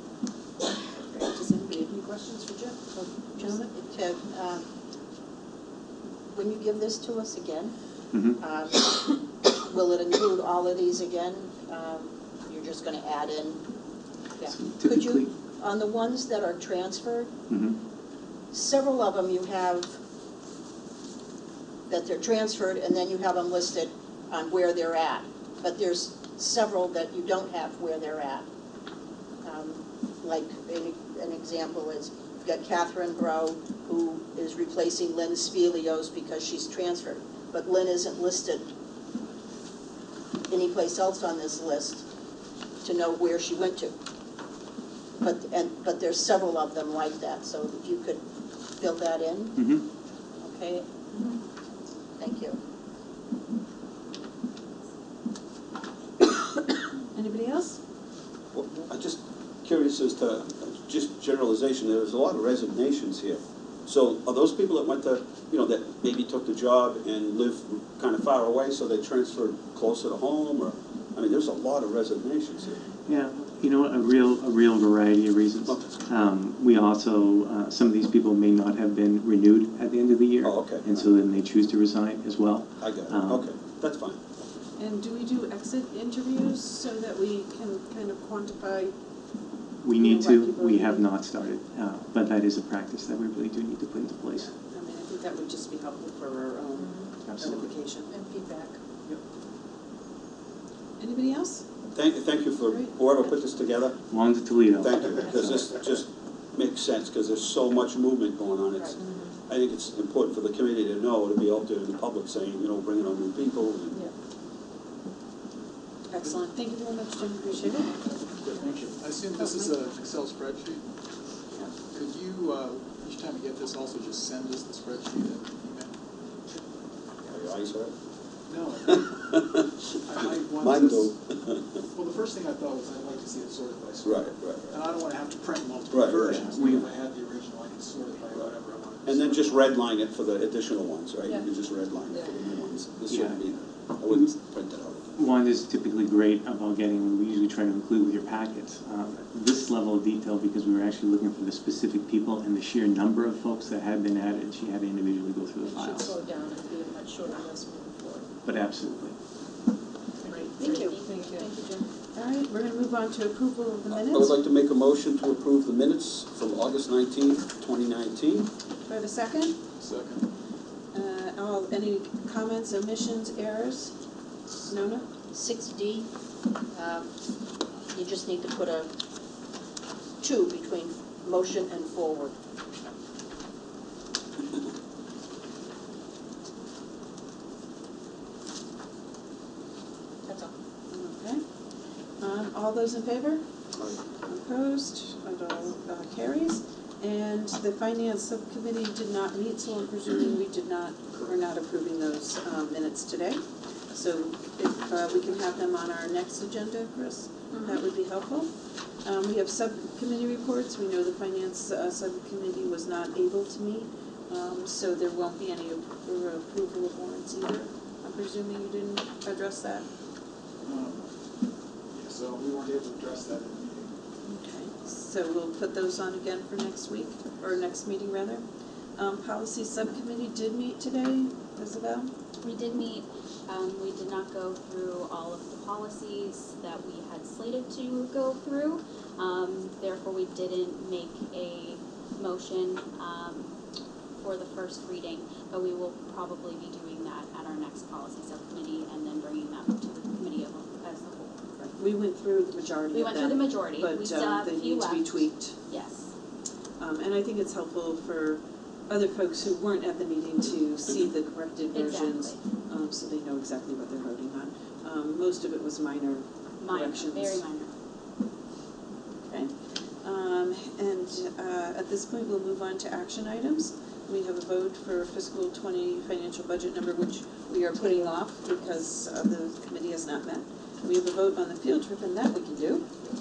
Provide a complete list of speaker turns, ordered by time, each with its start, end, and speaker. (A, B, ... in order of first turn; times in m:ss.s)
0:01.1-0:03.7 A
0:03.1-0:04.6 B
0:06.3-0:07.7 B
0:08.1-0:08.4 C
0:08.4-0:13.6 B
0:14.4-0:17.3 B
0:14.5-0:15.3 C
0:17.5-0:17.8 C
0:18.5-0:20.0 B
0:21.9-0:28.4 B
0:29.4-0:38.6 B
0:40.5-0:42.0 B
0:42.8-0:43.9 B
0:45.2-0:48.2 B
0:48.7-0:49.8 B
0:49.6-0:49.8 C
0:50.4-0:50.8 B
0:52.2-0:52.6 B
0:57.1-0:57.8 A
0:58.5-1:12.9 D
1:13.1-1:23.5 C
1:15.7-1:16.0 D
1:20.4-1:21.1 D
1:22.8-1:24.2 D
1:24.8-1:28.9 A
1:29.8-1:34.5 C
1:29.9-1:31.0 A
1:34.5-1:38.1 A
1:36.8-1:37.1 E
1:37.2-1:37.7 C
1:38.1-1:38.8 E
1:41.0-1:41.6 A
1:41.9-1:44.0 D
1:42.7-1:43.1 A
1:44.1-1:45.6 C
1:44.8-1:54.0 D
1:56.1-1:57.9 A
1:57.9-2:00.8 F
1:59.4-1:59.7 A
2:01.7-2:05.9 F
2:07.3-2:07.9 D
2:08.5-2:09.1 F
2:09.1-2:09.6 D
2:10.0-2:11.1 F
2:10.6-2:11.6 D
2:11.8-2:19.8 F
2:14.0-2:14.8 D
2:15.9-2:16.3 D
2:16.2-2:16.8 C
2:19.0-2:25.2 D
2:23.1-2:23.4 C
2:25.2-2:36.1 C
2:35.7-2:38.2 E
2:38.4-2:39.1 C
2:40.3-2:41.4 E
2:40.3-2:41.0 A
2:40.6-2:41.8 G
2:42.1-2:44.4 A
2:43.9-2:48.5 D
2:48.9-2:49.6 A
2:49.8-2:50.2 F
2:50.9-2:53.9 A
2:54.6-2:55.1 A
2:55.3-2:56.1 B
2:56.7-2:57.1 B
2:57.9-2:58.9 B
3:00.2-3:02.3 B
3:10.9-3:11.4 A
3:12.2-3:13.4 A
3:14.2-3:23.4 A
3:23.9-3:28.5 A
3:27.5-3:27.8 G
3:29.0-3:39.8 A
3:40.6-3:41.1 F
3:41.9-3:44.0 F
3:44.2-3:48.4 A
3:49.0-3:52.1 A
3:52.4-4:03.5 G
4:04.2-4:11.7 G
4:11.8-4:15.6 A
4:12.9-4:16.1 G
4:16.8-4:27.4 A
4:21.7-4:22.4 G
4:26.6-4:27.7 G
4:29.2-4:42.8 A
4:37.8-4:38.2 E